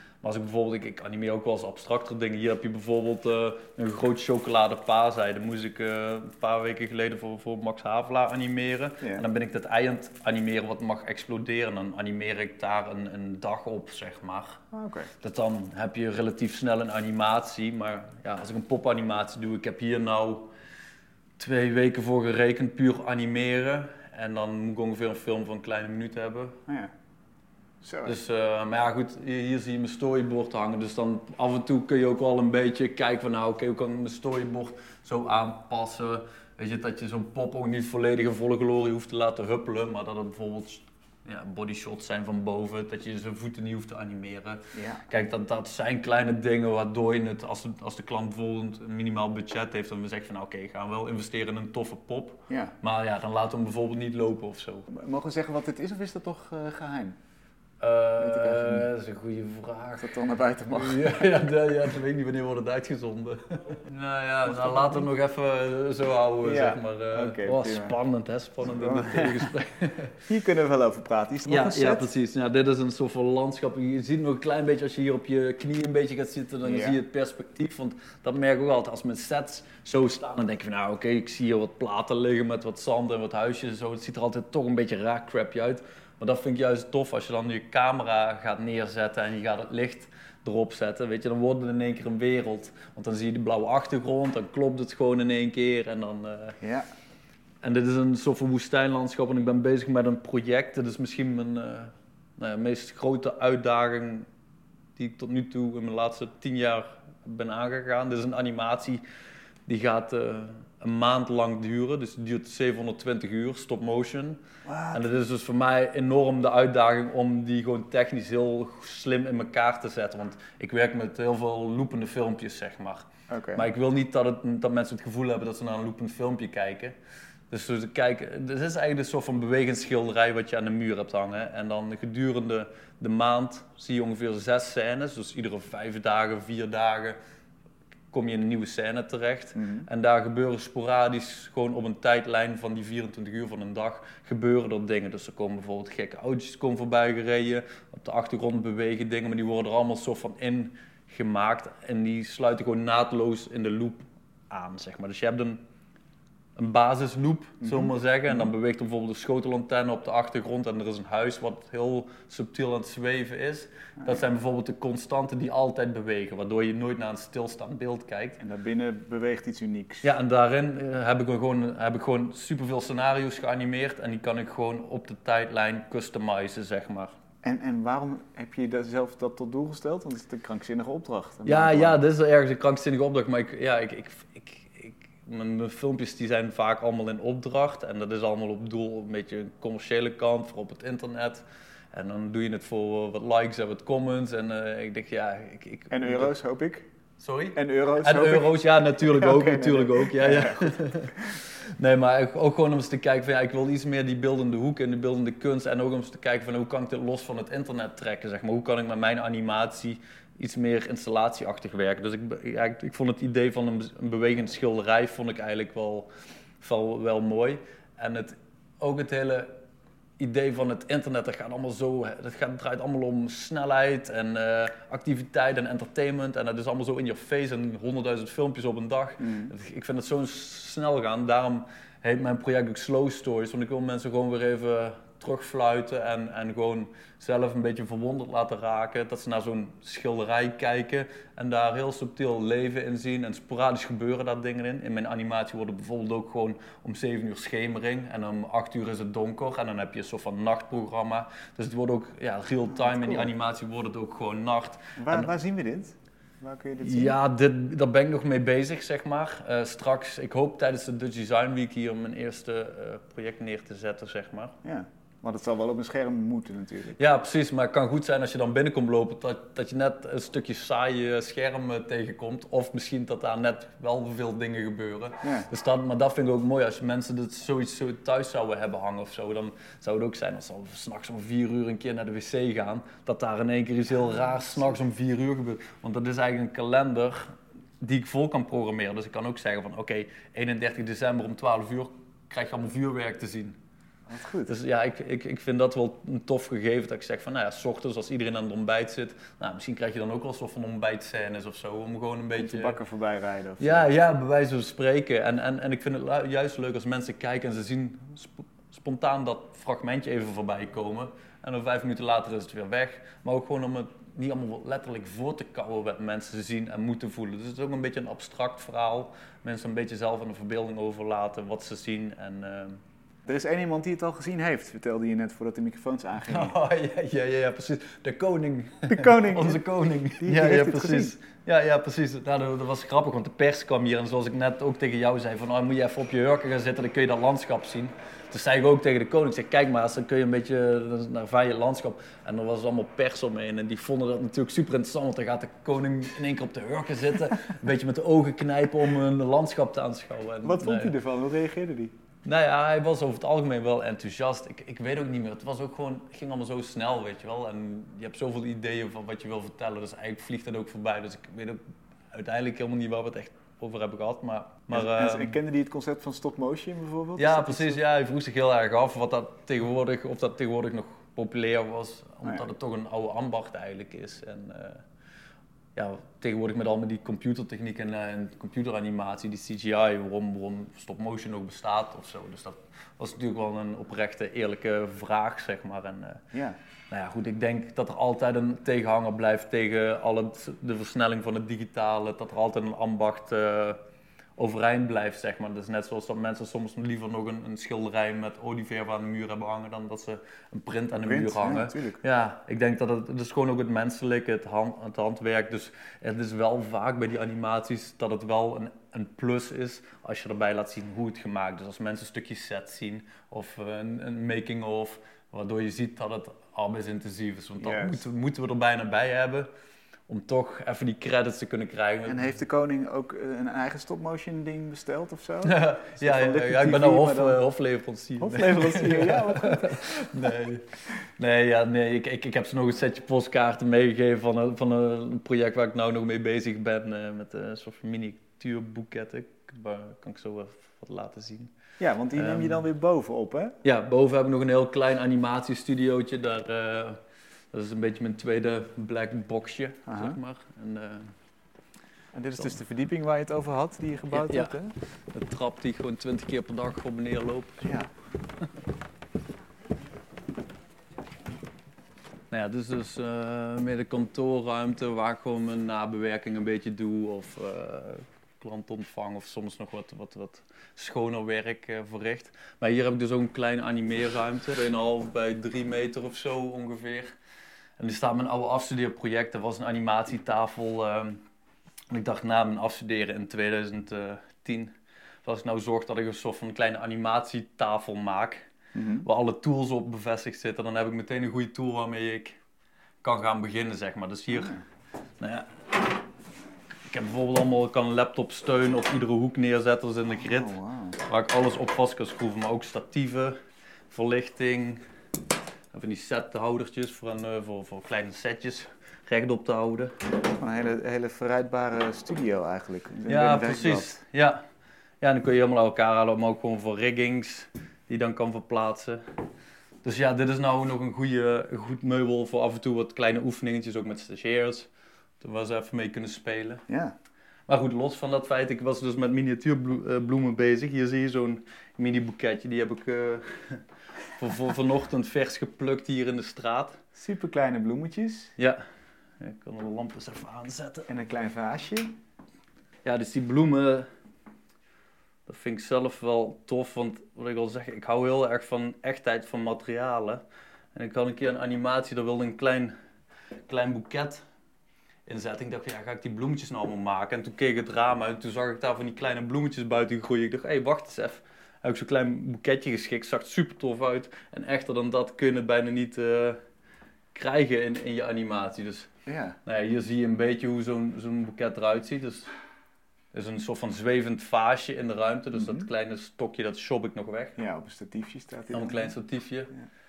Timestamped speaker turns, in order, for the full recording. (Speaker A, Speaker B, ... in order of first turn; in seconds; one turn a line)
Speaker A: 0.2-14.6
Speaker B: 14.7-15.1
Speaker A: 15.2-20.5
Speaker A: 21.4-26.6
Speaker B: 26.7-26.9
Speaker B: 27.8-28.2
Speaker A: 28.1-54.9
Speaker B: 44.7-45.1
Speaker B: 52.5-52.7
Speaker B: 54.9-57.2
Speaker A: 57.8-70.2
Speaker B: 58.2-58.9
Speaker B: 60.0-61.5
Speaker B: 64.5-65.1
Speaker B: 66.4-68.0
Speaker B: 68.6-69.5
Speaker B: 70.3-72.1
Speaker A: 71.5-96.6
Speaker B: 76.7-77.0
Speaker B: 96.6-96.9
Speaker A: 97.6-104.3
Speaker A: 105.0-109.0
Speaker A: 109.7-127.0
Speaker B: 114.7-115.0
Speaker B: 123.3-123.7
Speaker A: 127.5-137.2
Speaker A: 138.1-155.6
Speaker B: 139.6-139.9
Speaker A: 156.6-168.4
Speaker B: 157.6-158.5
Speaker B: 168.4-170.1
Speaker A: 170.0-177.2
Speaker B: 177.4-182.0
Speaker A: 181.5-196.3
Speaker B: 195.9-196.9
Speaker A: 197.2-216.1
Speaker B: 197.5-201.2
Speaker A: 216.6-219.6
Speaker A: 220.2-255.3
Speaker B: 229.2-229.5
Speaker B: 252.7-253.3
Speaker B: 255.0-257.2
Speaker A: 256.8-264.6
Speaker B: 264.6-267.0
Speaker A: 267.0-293.6
Speaker B: 275.2-275.5
Speaker B: 284.1-284.4
Speaker B: 294.1-294.6
Speaker A: 294.5-302.8
Speaker B: 302.4-303.9
Speaker A: 303.6-322.8
Speaker B: 323.3-326.6
Speaker A: 326.3-350.9
Speaker B: 328.9-331.1
Speaker B: 350.4-351.9
Speaker A: 352.2-365.4
Speaker B: 364.7-367.8
Speaker A: 367.2-374.9
Speaker A: 375.8-386.3
Speaker B: 386.3-386.6
Speaker A: 386.9-393.8
Speaker A: 394.4-419.5
Speaker B: 401.0-402.0
Speaker B: 417.6-418.1
Speaker A: 420.1-422.4
Speaker B: 422.1-427.4
Speaker A: 425.4-441.5
Speaker B: 428.2-430.4
Speaker B: 441.8-443.6
Speaker A: 442.1-442.7
Speaker A: 443.6-447.0
Speaker A: 447.5-451.1
Speaker B: 449.9-450.2
Speaker B: 452.1-454.7
Speaker A: 454.1-454.6
Speaker A: 455.1-457.7
Speaker B: 457.6-457.9
Speaker A: 462.3-477.2
Speaker A: 477.8-481.2
Speaker A: 481.9-484.7
Speaker A: 485.2-488.5
Speaker B: 488.7-489.1
Speaker A: 489.0-492.4
Speaker A: 493.0-494.6
Speaker B: 494.3-494.6
Speaker A: 495.2-495.7
Speaker A: 496.9-503.4
Speaker B: 500.2-501.0
Speaker A: 503.9-504.8
Speaker A: 505.7-509.9
Speaker B: 510.4-514.0
Speaker A: 513.1-514.4
Speaker A: 515.0-519.0
Speaker A: 519.8-524.7
Speaker A: 525.2-526.6
Speaker B: 526.7-527.0
Speaker A: 527.5-533.6
Speaker A: 534.1-536.8
Speaker B: 537.0-538.3
Speaker A: 538.4-538.6
Speaker A: 539.2-540.9
Speaker B: 540.9-542.0
Speaker A: 542.8-543.9
Speaker A: 545.3-550.2
Speaker A: 550.8-552.7
Speaker A: 553.5-554.2
Speaker A: 555.1-566.4
Speaker A: 567.1-568.9
Speaker B: 569.1-569.4
Speaker A: 569.5-572.3
Speaker A: 573.1-577.4
Speaker B: 575.3-575.7
Speaker B: 577.4-578.9
Speaker A: 578.5-579.5